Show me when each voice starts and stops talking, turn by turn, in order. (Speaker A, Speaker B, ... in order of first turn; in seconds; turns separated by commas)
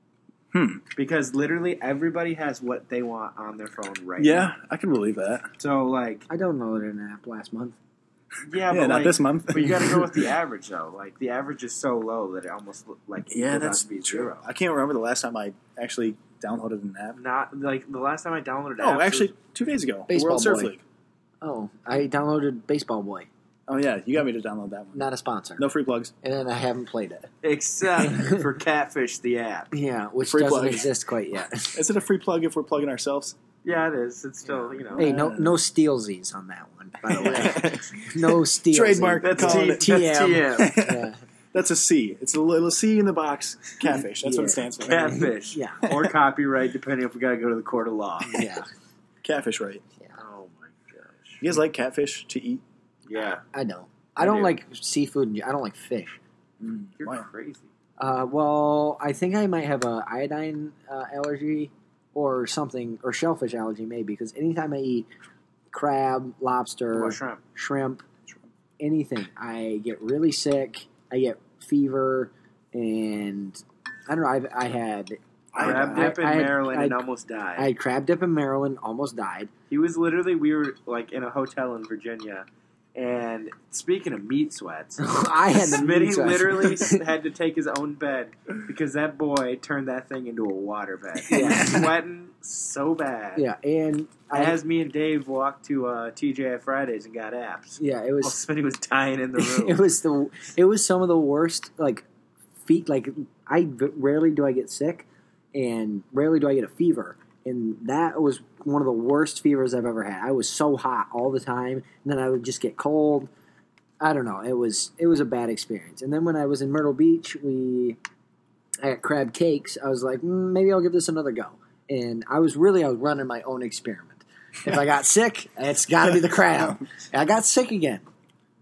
Speaker A: 0.5-0.8, Speaker B: 0.9-4.5, Speaker A: 4.2-5.5, Speaker B: 5.6-6.3, Speaker C: 6.3-7.8, Speaker B: 8.4-14.4, Speaker A: 8.7-10.2, Speaker A: 13.3-17.2, Speaker B: 17.2-19.3, Speaker A: 18.8-20.8, Speaker C: 20.1-20.7, Speaker C: 21.4-23.3, Speaker A: 23.7-26.1, Speaker C: 24.9-25.6, Speaker C: 26.2-27.3, Speaker B: 27.4-29.7, Speaker C: 28.0-28.4, Speaker C: 29.7-31.8, Speaker A: 30.2-30.9, Speaker A: 31.7-33.4, Speaker B: 33.6-35.1, Speaker C: 34.8-41.2, Speaker A: 35.0-35.5, Speaker B: 37.2-38.0, Speaker A: 37.3-37.6, Speaker A: 38.7-45.3, Speaker B: 39.2-40.8, Speaker C: 43.8-45.9, Speaker B: 44.8-48.5, Speaker C: 48.3-48.7, Speaker A: 49.2-49.8, Speaker B: 50.2-51.4, Speaker A: 51.4-52.6, Speaker B: 53.1-53.4, Speaker C: 53.5-56.2, Speaker B: 54.2-54.6, Speaker A: 56.6-57.3, Speaker B: 57.0-57.7, Speaker C: 58.0-65.1, Speaker C: 65.7-68.0, Speaker B: 66.9-67.4, Speaker C: 68.8-77.0, Speaker A: 75.5-76.2, Speaker B: 75.6-77.7, Speaker C: 77.6-79.5, Speaker B: 79.7-93.5, Speaker C: 85.0-87.0, Speaker C: 91.3-91.9, Speaker A: 91.5-91.8, Speaker C: 93.4-94.6, Speaker B: 94.3-99.8, Speaker C: 97.8-98.4, Speaker C: 99.4-102.1, Speaker C: 102.7-113.3, Speaker C: 114.0-118.0, Speaker C: 118.8-128.1